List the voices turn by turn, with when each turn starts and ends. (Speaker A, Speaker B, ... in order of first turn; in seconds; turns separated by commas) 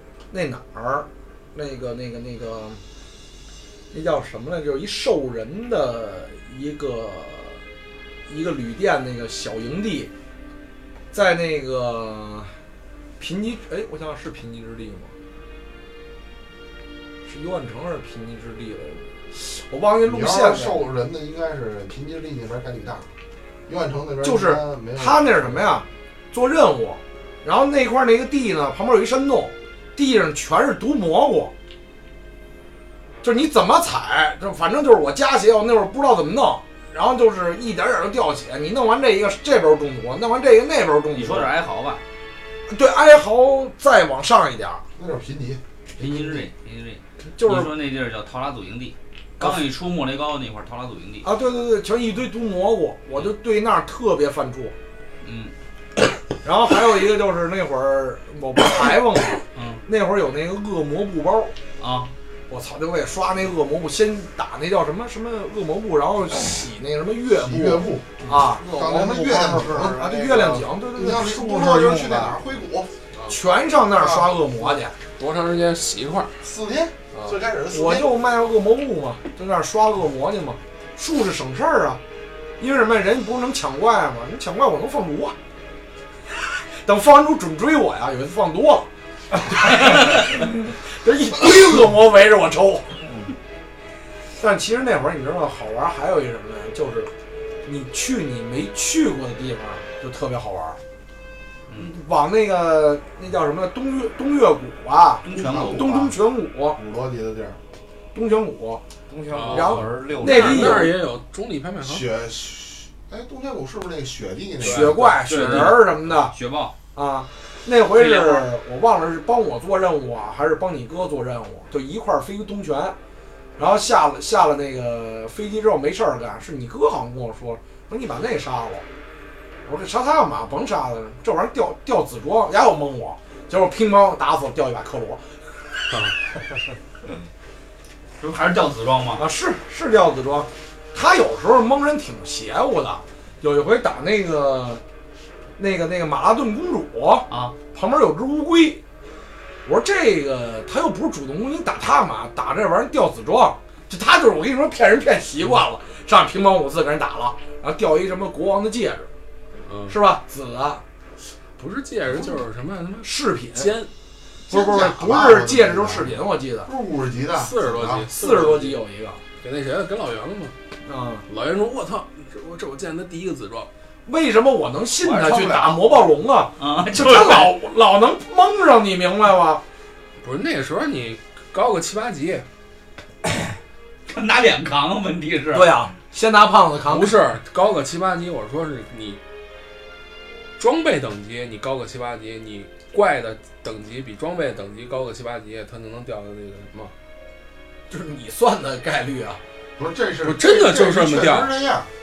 Speaker A: 0.3-2.8, Speaker A: 3.9-7.6, Speaker A: 8.3-10.1, Speaker A: 11.1-12.5, Speaker A: 13.2-15.1, Speaker A: 17.2-20.8, Speaker B: 20.1-23.1, Speaker B: 23.7-25.7, Speaker A: 24.2-31.5, Speaker A: 33.2-41.5, Speaker C: 41.1-42.0, Speaker A: 42.7-44.8, Speaker B: 45.0-45.6, Speaker A: 46.0-46.4, Speaker C: 46.0-51.2, Speaker A: 47.3-47.7, Speaker A: 51.2-54.7, Speaker C: 55.2-55.5, Speaker A: 56.4-61.5, Speaker C: 59.5-59.8, Speaker C: 61.8-62.1, Speaker A: 62.5-72.3, Speaker B: 67.3-72.9, Speaker D: 69.8-70.6, Speaker A: 73.3-74.9, Speaker B: 73.9-74.4, Speaker E: 75.2-76.4, Speaker B: 76.4-78.1, Speaker A: 77.7-82.0, Speaker A: 82.6-85.3, Speaker A: 86.8-88.9, Speaker A: 89.4-93.0, Speaker A: 94.4-97.1, Speaker A: 97.6-100.8, Speaker A: 101.8-106.8, Speaker C: 105.2-106.0, Speaker B: 105.3-106.2, Speaker B: 106.8-107.6, Speaker A: 108.1-108.8, Speaker D: 109.1-110.9, Speaker E: 109.3-112.1, Speaker A: 109.5-110.9, Speaker B: 111.8-115.0, Speaker C: 114.6-116.7, Speaker A: 114.7-116.3, Speaker E: 114.8-115.8, Speaker A: 116.9-122.9, Speaker C: 118.0-118.5, Speaker A: 123.6-128.8, Speaker A: 129.6-135.2, Speaker C: 138.2-139.2, Speaker A: 139.2-144.8, Speaker A: 145.6-148.8, Speaker A: 149.6-159.1, Speaker E: 159.6-159.9, Speaker A: 159.9-160.8, Speaker E: 161.6-163.9, Speaker A: 163.0-163.7, Speaker A: 164.5-166.7, Speaker B: 164.5-168.1, Speaker E: 167.3-168.8, Speaker A: 168.2-169.2, Speaker E: 169.4-170.5, Speaker A: 170.8-171.2, Speaker E: 171.3-173.7, Speaker A: 174.1-179.6, Speaker C: 175.0-175.8, Speaker C: 176.6-177.5, Speaker E: 180.2-182.4, Speaker C: 184.1-185.8, Speaker A: 185.5-187.2, Speaker E: 186.8-189.2, Speaker E: 190.6-196.9, Speaker A: 197.9-199.4, Speaker B: 199.8-201.9, Speaker E: 200.2-201.5